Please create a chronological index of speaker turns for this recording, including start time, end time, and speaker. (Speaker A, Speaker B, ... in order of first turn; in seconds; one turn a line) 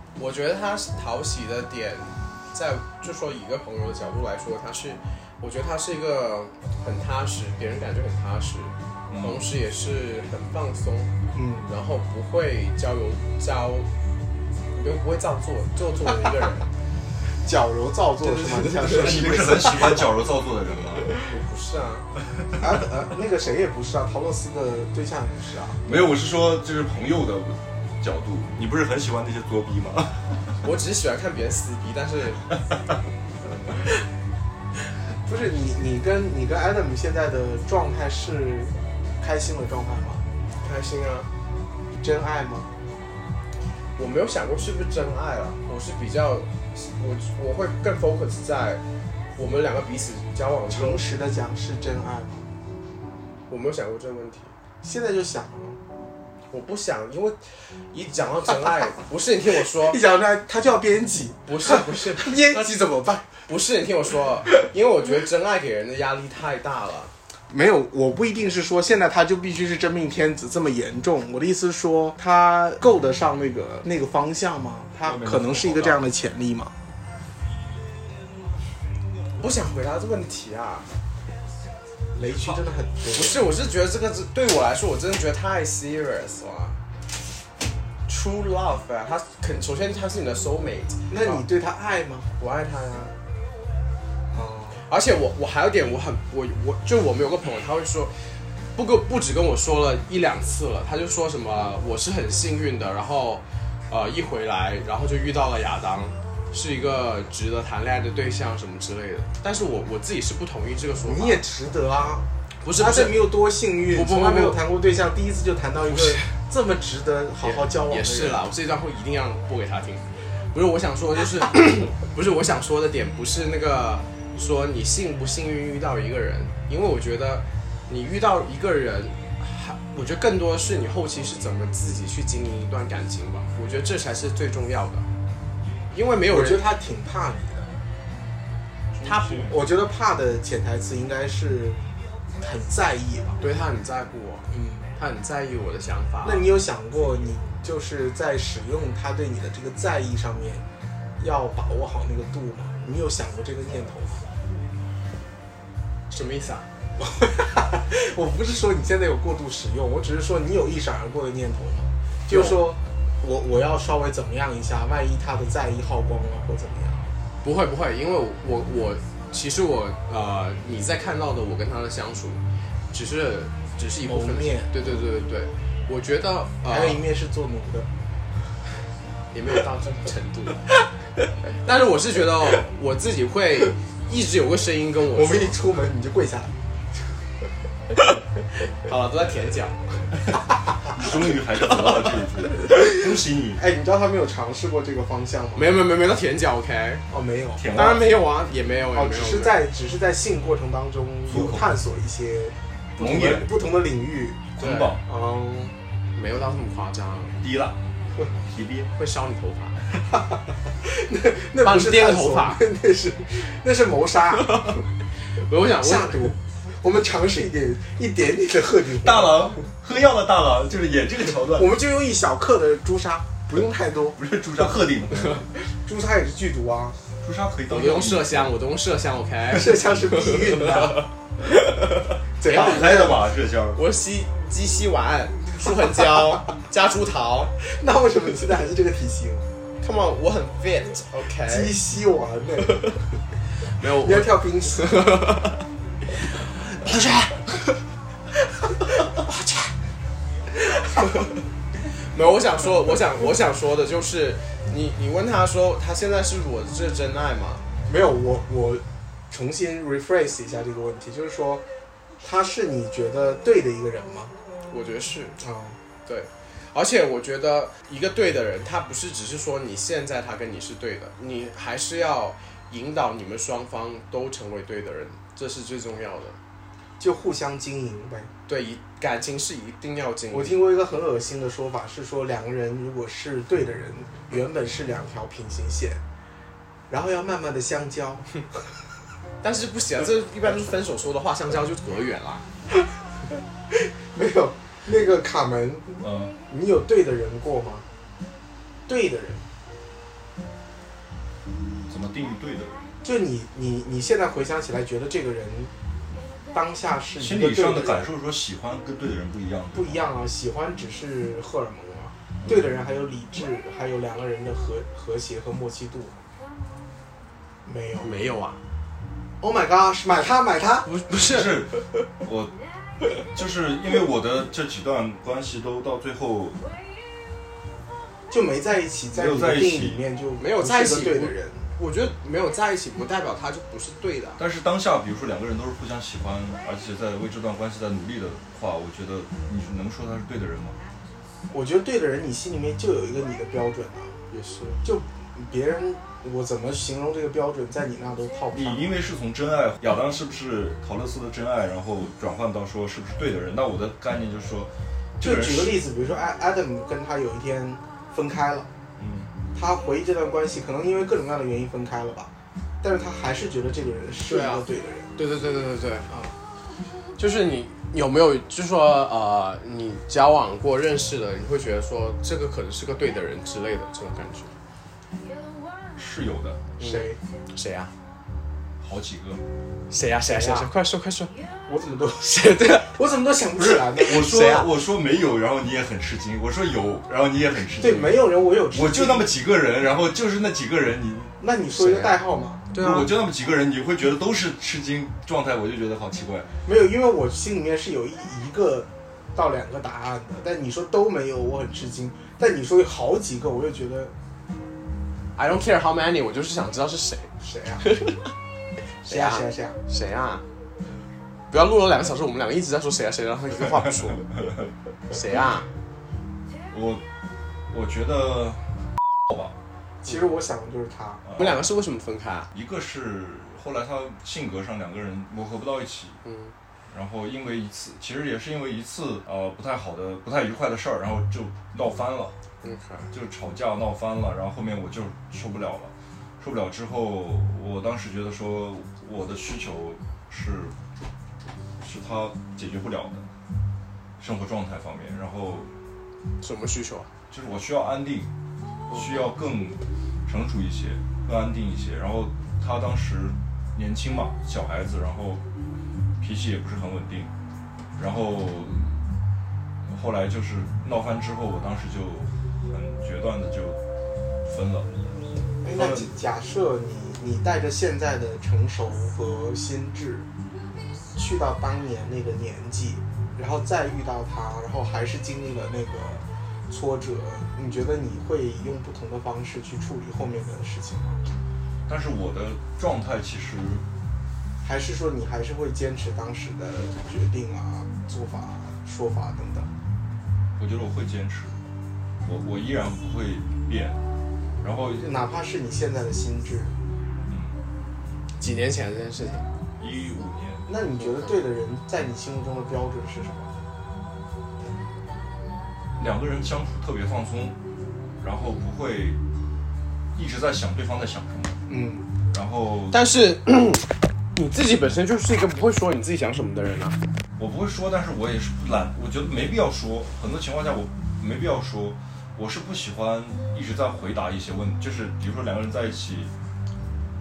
Speaker A: 0.2-11.1
Speaker B: 9.1-9.5
Speaker C: 11.3-11.7
Speaker A: 11.6-13.9
Speaker A: 14.7-16.7
Speaker C: 17.4-20.1
Speaker A: 18.2-19.7
Speaker B: 18.8-21.1
Speaker A: 21.1-22.1
Speaker C: 22.6-25.8
Speaker B: 25.8-30.4
Speaker A: 30.6-32.5
Speaker C: 35.2-40.2
Speaker A: 40.6-41.3
Speaker C: 42.0-42.7
Speaker A: 44.0-48.8
Speaker A: 49.4-51.0
Speaker C: 50.7-52.5
Speaker A: 53.5-54.5
Speaker C: 54.8-55.8
Speaker A: 56.5-60.0
Speaker C: 59.7-63.3
Speaker A: 61.5-62.6
Speaker A: 63.5-67.1
Speaker C: 67.5-76.7
Speaker B: 75.0-76.1
Speaker A: 79.3-80.9
Speaker C: 82.1-83.5
Speaker A: 83.1-86.8
Speaker A: 88.1-91.4
Speaker C: 91.1-92.3
Speaker A: 92.4-93.1
Speaker C: 94.3-94.8
Speaker A: 94.8-111.4
Speaker C: 111.0-118.4
Speaker A: 112.6-113.3
Speaker A: 113.9-114.6
Speaker A: 115.8-116.3
Speaker A: 117.4-135.1
Speaker A: 135.9-136.6
Speaker C: 136.3-137.7
Speaker B: 139.0-139.4
Speaker A: 139.0-139.5
Speaker C: 139.4-141.8
Speaker C: 142.4-143.4
Speaker A: 143.4-146.5
Speaker C: 144.5-144.9
Speaker C: 146.2-150.6
Speaker C: 151.2-154.2
Speaker A: 156.1-156.7
Speaker C: 157.0-167.1
Speaker A: 162.3-162.6
Speaker A: 167.4-177.0
Speaker C: 174.0-174.8
Speaker C: 176.7-177.9
Speaker A: 179.3-180.7
Speaker A: 181.6-185.6
Speaker C: 185.1-186.5
Speaker A: 188.8-190.1
Speaker B: 190.9-193.6
Speaker A: 191.8-192.1
Speaker C: 193.6-195.8
Speaker A: 195.5-197.0
Speaker C: 197.1-197.7
Speaker B: 197.6-198.1
Speaker A: 197.7-199.6
Speaker C: 198.9-204.5
Speaker B: 201.3-201.7
Speaker B: 203.0-203.5
Speaker B: 204.6-205.0
Speaker A: 204.6-205.0
Speaker C: 205.0-205.8
Speaker A: 206.1-207.4
Speaker B: 207.4-207.8
Speaker B: 208.5-208.9
Speaker A: 208.9-209.8
Speaker C: 210.1-214.8
Speaker A: 211.6-212.6
Speaker A: 214.4-214.8
Speaker A: 215.3-216.3
Speaker C: 215.8-219.5
Speaker B: 219.0-221.7
Speaker C: 221.5-224.2
Speaker B: 224.2-225.4
Speaker C: 225.6-227.0
Speaker B: 227.2-228.5
Speaker A: 227.7-233.1
Speaker C: 229.5-231.1
Speaker C: 232.4-233.2
Speaker B: 232.5-233.8
Speaker A: 233.7-237.5
Speaker C: 237.6-239.5
Speaker A: 239.8-241.7
Speaker C: 241.5-242.9
Speaker A: 243.6-245.6
Speaker C: 244.0-245.0
Speaker A: 246.3-247.7
Speaker A: 251.9-257.6
Speaker C: 257.9-261.6
Speaker C: 262.2-264.3
Speaker A: 264.7-265.4
Speaker C: 265.4-265.8
Speaker A: 266.1-276.4
Speaker C: 277.0-278.3
Speaker A: 278.5-280.6
Speaker C: 280.3-286.0
Speaker C: 286.9-288.3
Speaker A: 289.4-292.4
Speaker C: 293.7-297.9
Speaker B: 296.0-296.3
Speaker C: 298.9-299.4
Speaker B: 301.9-302.8
Speaker C: 303.0-305.7
Speaker C: 306.5-308.1
Speaker B: 307.2-310.1
Speaker C: 309.7-316.2
Speaker B: 312.4-312.7
Speaker C: 317.6-318.1
Speaker A: 318.0-318.6
Speaker C: 319.4-320.9
Speaker A: 320.9-321.8
Speaker B: 321.2-322.5
Speaker B: 323.3-326.6
Speaker C: 328.3-331.6
Speaker B: 329.1-330.0
Speaker A: 330.4-334.4
Speaker B: 334.4-340.8
Speaker C: 341.5-344.2
Speaker A: 344.3-344.8
Speaker C: 344.8-348.9
Speaker B: 348.5-355.8
Speaker C: 355.2-358.7
Speaker B: 359.0-359.3
Speaker C: 359.5-365.1
Speaker A: 364.2-364.6
Speaker A: 365.1-366.1
Speaker A: 367.2-374.5
Speaker B: 375.9-376.6
Speaker A: 376.8-377.9
Speaker C: 376.8-377.2
Speaker B: 378.8-379.4
Speaker A: 379.9-381.3
Speaker C: 380.3-380.7
Speaker C: 381.7-384.3
Speaker A: 382.2-383.0
Speaker B: 383.6-391.4
Speaker A: 384.1-384.7
Speaker C: 387.8-389.3
Speaker C: 391.4-392.7
Speaker A: 391.7-392.1
Speaker A: 392.7-393.1
Speaker B: 392.8-396.5
Speaker C: 396.6-404.1
Speaker A: 405.4-407.3
Speaker C: 407.4-407.9
Speaker A: 407.8-408.3
Speaker A: 409.0-410.4
Speaker C: 409.0-409.8
Speaker A: 411.5-414.4
Speaker A: 415.1-415.7
Speaker B: 416.7-417.0
Speaker B: 417.7-419.5
Speaker C: 420.0-421.2
Speaker B: 421.2-421.6
Speaker A: 421.4-422.5
Speaker B: 422.5-426.2
Speaker A: 426.2-426.5
Speaker B: 426.9-432.3
Speaker A: 432.6-433.1
Speaker B: 433.1-440.7
Speaker B: 441.8-443.2
Speaker B: 444.2-445.7
Speaker A: 446.4-447.1
Speaker B: 447.3-448.3
Speaker B: 448.9-455.4
Speaker B: 456.2-457.3
Speaker B: 458.0-459.0
Speaker B: 459.9-463.8
Speaker B: 464.4-464.9
Speaker C: 465.6-470.3
Speaker B: 465.7-466.1
Speaker C: 471.1-481.2
Speaker B: 481.9-483.8
Speaker C: 484.6-489.7
Speaker B: 490.6-491.6
Speaker B: 492.2-494.0
Speaker B: 494.6-495.1
Speaker C: 495.0-496.7
Speaker B: 497.3-497.6
Speaker A: 498.4-499.5
Speaker B: 499.8-500.6
Speaker C: 500.7-503.5
Speaker A: 501.0-501.3
Speaker B: 506.0-507.6
Speaker B: 508.2-509.2
Speaker B: 510.1-511.6
Speaker C: 511.7-512.1
Speaker B: 512.3-513.0
Speaker A: 512.9-517.0
Speaker B: 517.4-526.3